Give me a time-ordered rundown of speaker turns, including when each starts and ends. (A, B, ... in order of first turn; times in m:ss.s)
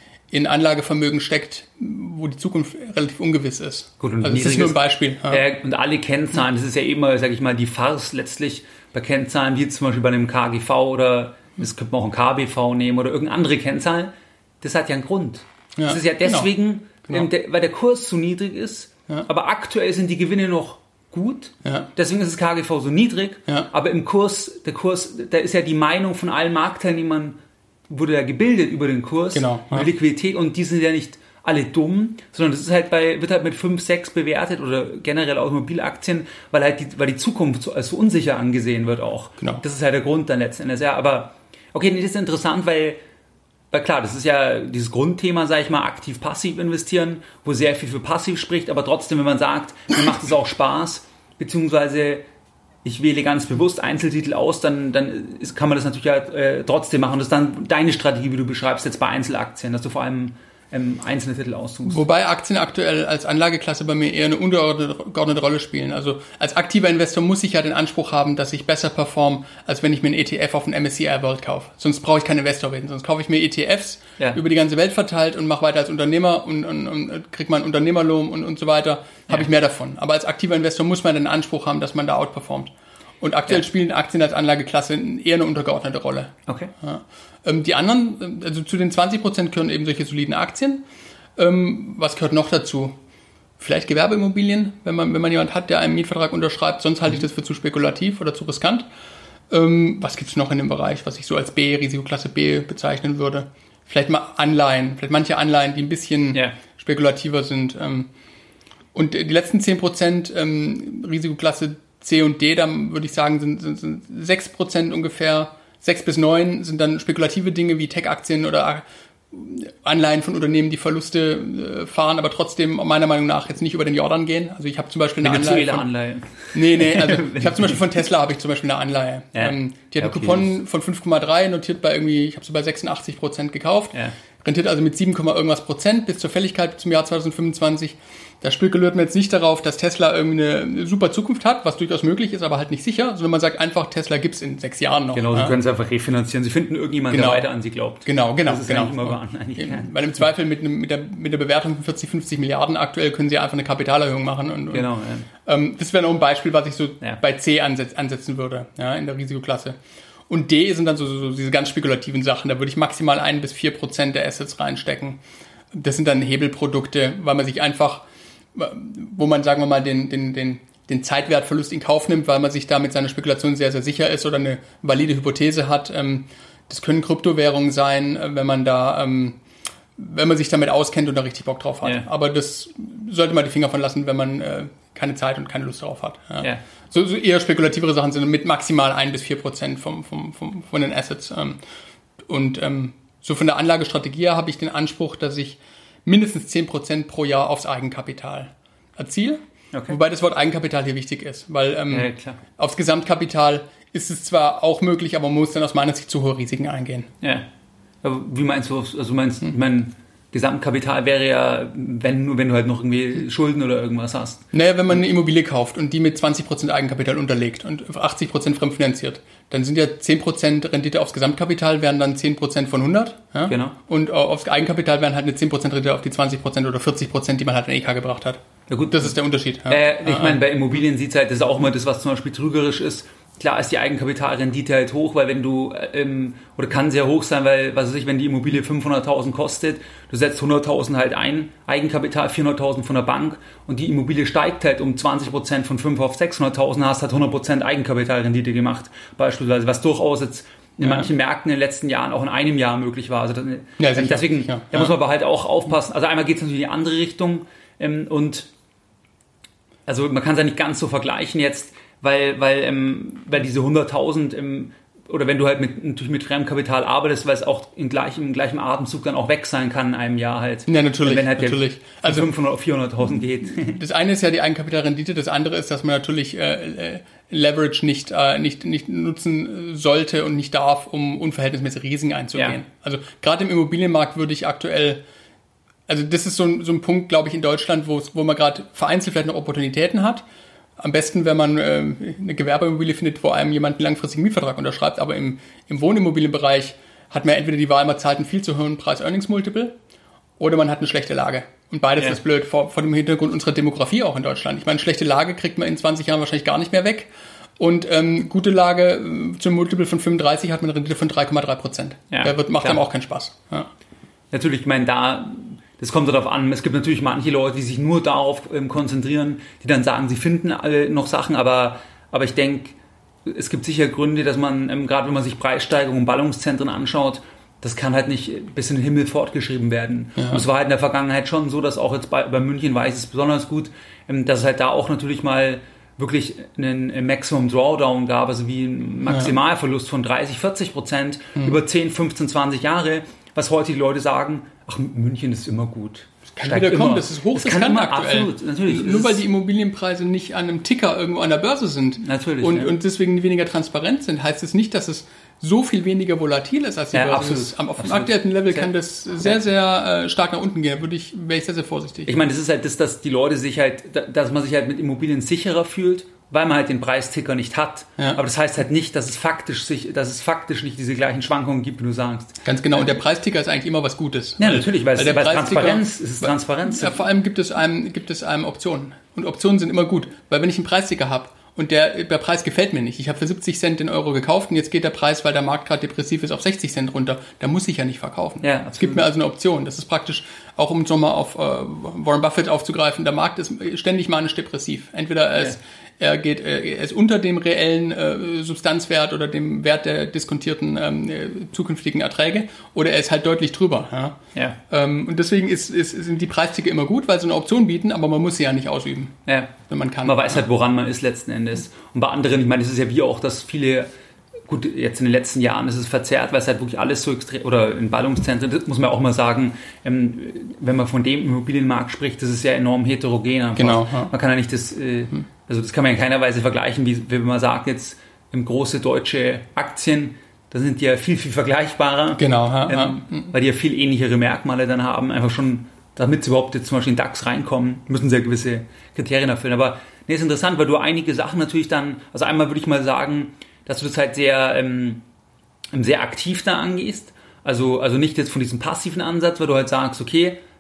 0:00.3-0:05.4 A
0:04.0-0:27.4 B
0:15.8-0:16.5 A
0:21.6-0:21.9 A
0:27.9-0:43.0 B
0:29.3-0:29.9 A
0:43.7-0:52.2 B
0:52.8-1:02.0 B
1:01.8-1:30.8 A
1:26.5-1:26.7 B
1:31.4-1:32.9 A
1:33.6-1:38.9 A
1:39.5-1:48.1 A
1:48.9-2:05.9 A
2:05.2-2:07.8 B
2:06.5-2:25.5 A
2:09.3-2:10.5 B
2:25.1-2:30.0 B
2:27.1-2:27.5 A
2:28.0-2:45.2 A
2:34.7-2:35.3 B
2:45.7-2:59.4 A
3:00.0-3:11.6 A
3:12.2-3:27.1 A
3:19.7-3:20.0 B
3:21.9-3:22.4 B
3:27.2-3:27.5 B
3:28.0-3:34.5 B
3:34.5-3:50.4 A
3:43.5-3:43.8 B
3:48.7-3:49.2 B
3:49.7-4:18.5 B
4:10.8-4:11.1 A
4:13.8-4:14.9 A
4:19.9-4:33.8 B
4:30.7-4:32.3 A
4:33.6-4:45.0 A
4:42.3-4:42.6 B
4:45.9-4:50.2 A
4:50.8-4:59.8 A
5:00.4-5:13.7 A
5:12.1-5:12.8 B
5:14.3-5:49.2 B
5:30.2-5:30.4 A
5:39.1-5:39.3 A
5:46.3-6:02.1 A
5:52.0-5:52.8 B
5:56.9-5:58.7 B
6:02.0-6:12.4 B
6:12.4-6:50.4 A
6:14.4-6:17.0 B
6:28.4-6:29.1 B
6:49.2-6:53.9 B
6:54.5-7:25.0 B
7:03.6-7:04.1 A
7:12.2-7:13.3 A
7:25.7-7:30.4 B